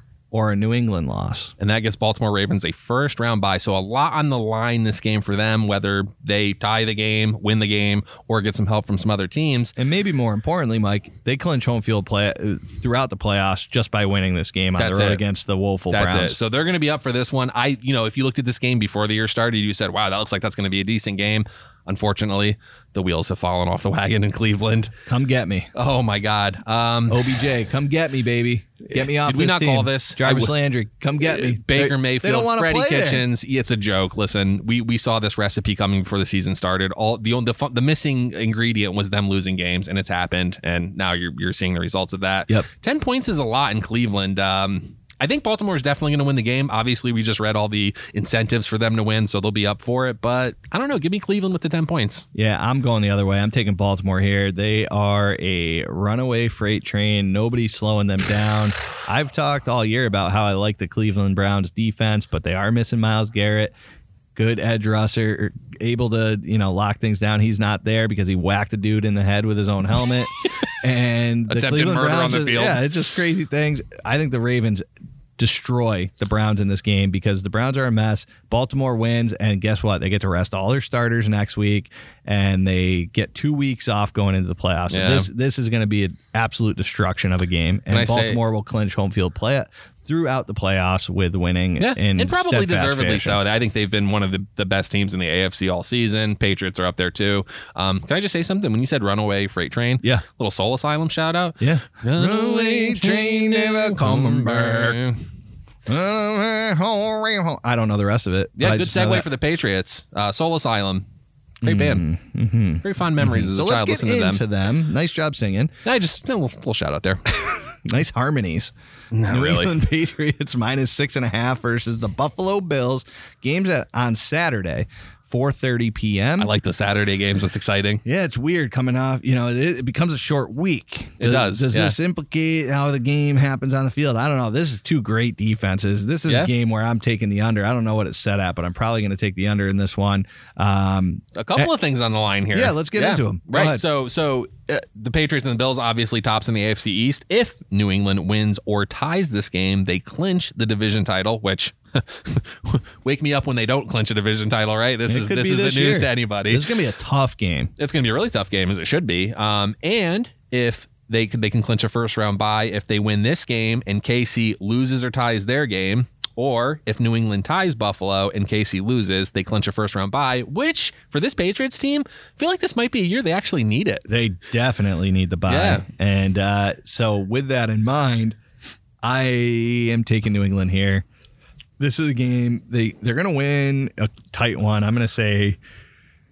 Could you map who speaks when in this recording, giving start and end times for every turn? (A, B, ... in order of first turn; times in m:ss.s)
0:00.3-0:01.5 A
0:01.6-0:09.7 B
0:09.8-0:16.4 A
0:14.8-0:15.2 B
0:15.9-0:24.9 B
0:25.0-0:25.7 A
0:25.7-0:27.2 B
0:27.1-0:33.2 A
0:28.9-0:30.5 B
0:31.2-0:52.2 B
0:52.3-1:03.7 A
1:04.3-1:14.8 A
1:11.5-1:12.8 B
1:15.4-1:33.4 A
1:24.9-1:25.3 B
1:27.9-1:28.4 B
1:31.8-1:45.2 B
1:41.6-1:45.0 A
1:45.9-1:49.3 A
1:48.6-1:51.0 B
1:51.6-1:55.7 A
1:51.6-1:52.0 B
1:52.8-1:54.4 B
1:55.8-1:57.2 B
1:57.8-1:58.7 A
1:59.1-1:59.7 B
1:59.3-2:06.5 A
2:06.4-2:08.0 B
2:08.0-2:21.7 A
2:11.2-2:12.0 B
2:21.3-2:36.6 B
2:22.5-2:23.8 A
2:35.1-2:37.7 A
2:37.8-2:54.0 B
2:54.1-2:58.4 A
2:55.5-2:55.8 B
2:59.0-3:01.0 A
3:01.8-3:05.6 A